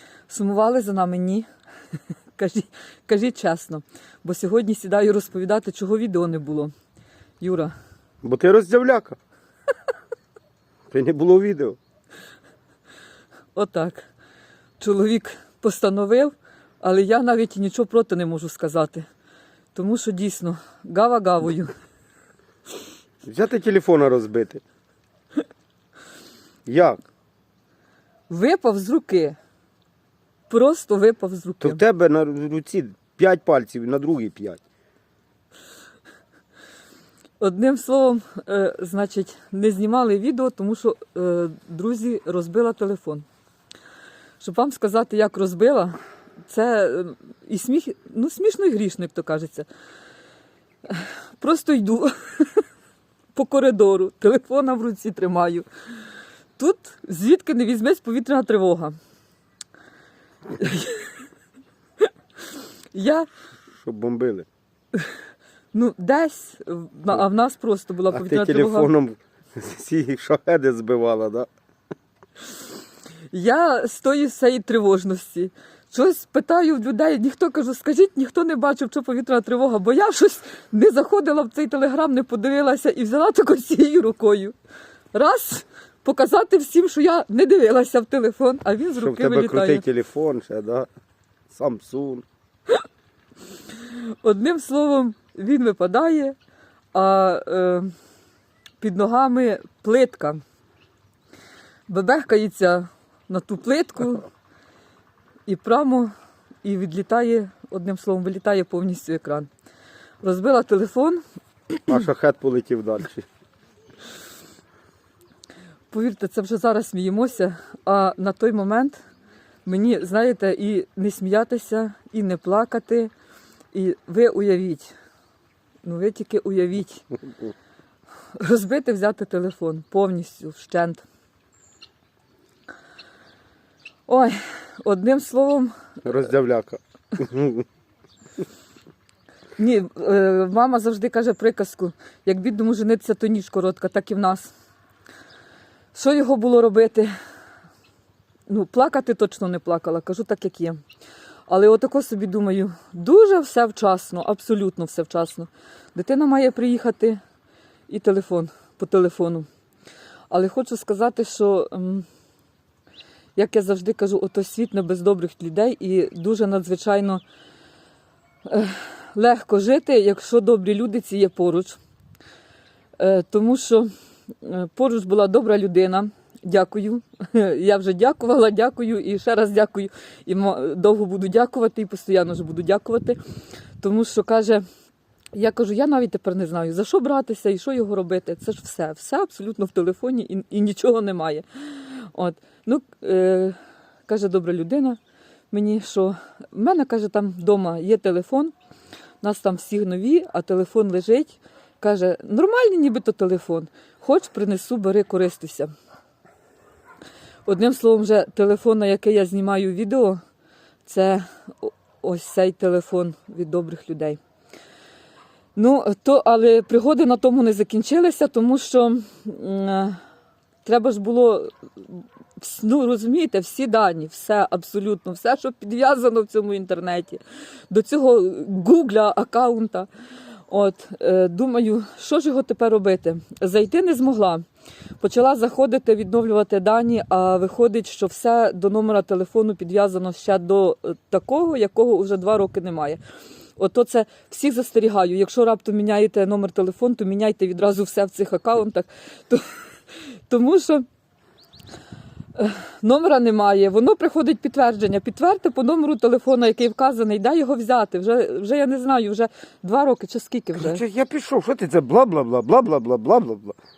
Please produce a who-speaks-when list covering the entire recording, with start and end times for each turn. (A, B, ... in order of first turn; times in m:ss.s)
0:00.3-0:01.4 A
0:02.4-0:06.7 A
0:07.4-0:07.7 A
0:08.2-0:09.2 B
0:10.9-0:11.8 B
0:13.5-0:14.1 A
0:14.8-0:19.0 A
0:19.7-0:21.7 A
0:23.2-0:24.6 B
0:26.6-0:27.0 B
0:28.3-0:29.4 A
0:30.5-0:31.8 A
0:31.6-0:34.6 B
0:37.4-0:43.2 A
0:44.4-0:49.7 A
0:50.8-0:52.6 A
0:53.3-0:55.6 A
0:56.6-0:58.9 A
1:00.6-1:01.2 A
1:02.0-1:03.3 A
1:03.8-1:04.5 B
1:05.7-1:08.9 A
1:08.1-1:11.5 B
1:13.3-1:24.5 A
1:25.1-1:29.8 A
1:29.0-1:30.9 B
1:31.5-1:32.2 B
1:33.8-1:36.3 A
1:36.9-1:37.9 A
1:38.8-1:40.4 A
1:41.9-1:44.3 A
1:45.5-1:46.1 A
1:46.6-1:49.5 A
1:50.2-1:51.9 A
1:51.9-1:53.2 B
1:55.9-1:59.0 A
1:59.6-2:03.1 A
2:03.7-2:04.9 A
2:05.8-2:07.1 A
2:08.3-2:11.0 A
2:14.1-2:15.7 A
2:16.0-2:17.6 B
2:19.6-2:24.5 A
2:25.9-2:27.1 A
2:28.5-2:30.8 A
2:31.5-2:37.2 A
2:37.9-2:39.5 A
2:40.3-2:42.0 A
2:43.4-2:47.2 A
2:48.4-2:51.8 A
2:53.0-2:53.9 A
2:54.4-3:03.2 A
3:03.8-3:04.6 A
3:05.3-3:13.6 A
3:14.1-3:15.0 A
3:15.5-3:18.5 A
3:19.2-3:25.7 A
3:27.4-3:30.2 A
3:30.8-3:34.2 A
3:35.6-3:40.0 A
3:40.6-3:49.9 A
3:50.5-3:54.4 A
3:55.0-4:03.0 A
4:03.6-4:09.5 A
4:10.3-4:10.8 A
4:12.4-4:20.8 A
4:20.6-4:23.6 B